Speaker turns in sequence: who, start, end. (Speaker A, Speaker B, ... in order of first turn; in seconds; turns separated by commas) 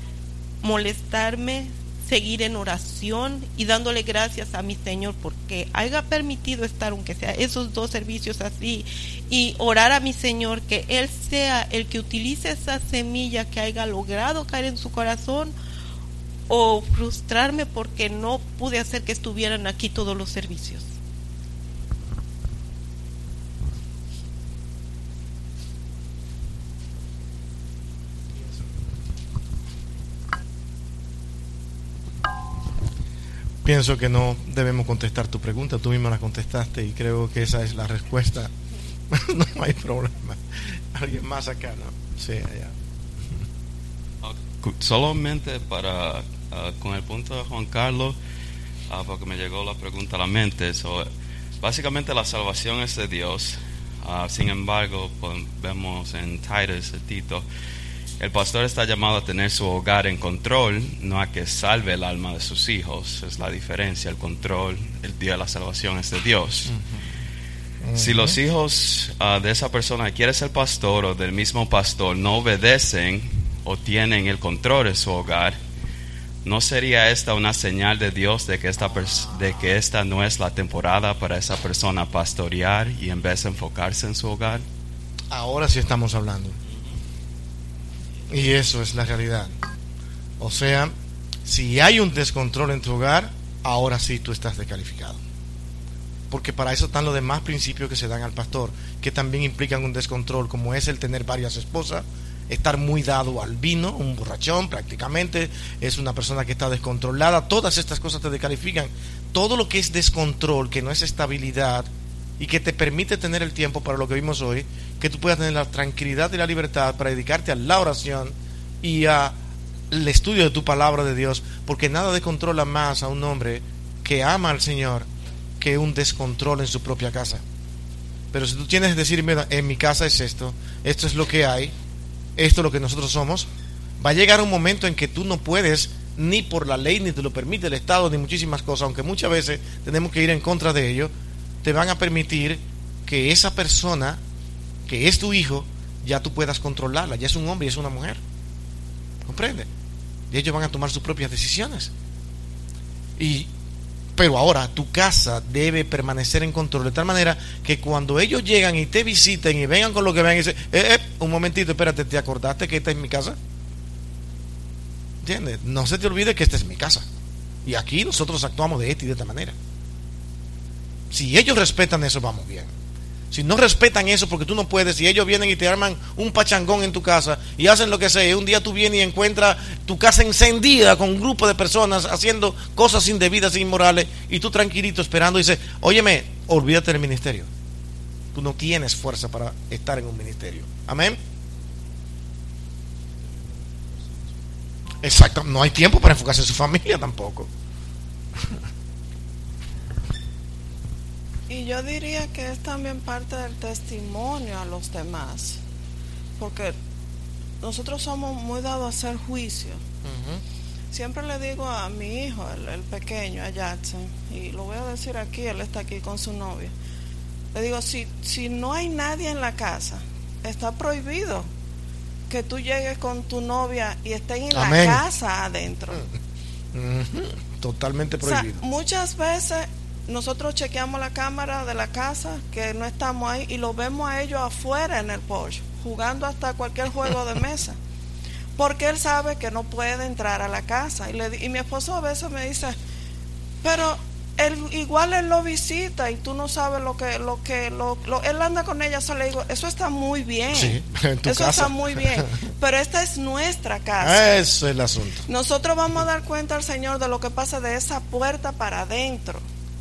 Speaker A: 0.6-15.6, Speaker A: 16.5-20.9, Speaker B: 33.6-38.5, Speaker B: 39.1-42.7, Speaker C: 44.2-48.2, Speaker C: 48.9-51.1, Speaker C: 51.6-57.4, Speaker C: 58.2-66.8, Speaker B: 66.7-67.0, Speaker B: 67.8-68.4, Speaker C: 67.9-75.6, Speaker C: 76.4-84.7, Speaker B: 85.3-86.6, Speaker B: 88.3-89.6, Speaker B: 90.4-90.9, Speaker B: 91.4-95.2, Speaker B: 96.3-119.3, Speaker B: 119.9-125.1, Speaker B: 125.6-127.4, Speaker B: 128.3-131.7, Speaker B: 132.4-141.1, Speaker B: 141.6-144.2, Speaker B: 144.8-148.2, Speaker B: 149.2-149.7, Speaker B: 150.3-151.9, Speaker B: 153.2-153.5, Speaker B: 154.2-163.4, Speaker B: 165.2-167.1, Speaker B: 167.6-169.6, Speaker B: 171.1-172.7, Speaker B: 173.3-187.5, Speaker B: 188.3-191.2, Speaker B: 195.0-197.5, Speaker D: 201.5-205.6, Speaker D: 206.4-206.7, Speaker D: 207.6-209.8, Speaker B: 210.0-210.4, Speaker D: 210.9-216.7, Speaker D: 217.5-221.5, Speaker D: 222.3-226.1, Speaker B: 224.5-225.0, Speaker B: 226.7-228.6, Speaker D: 228.2-237.8, Speaker D: 238.6-242.8, Speaker D: 243.6-254.2, Speaker B: 250.5-252.3, Speaker B: 254.0-255.2, Speaker D: 255.2-259.4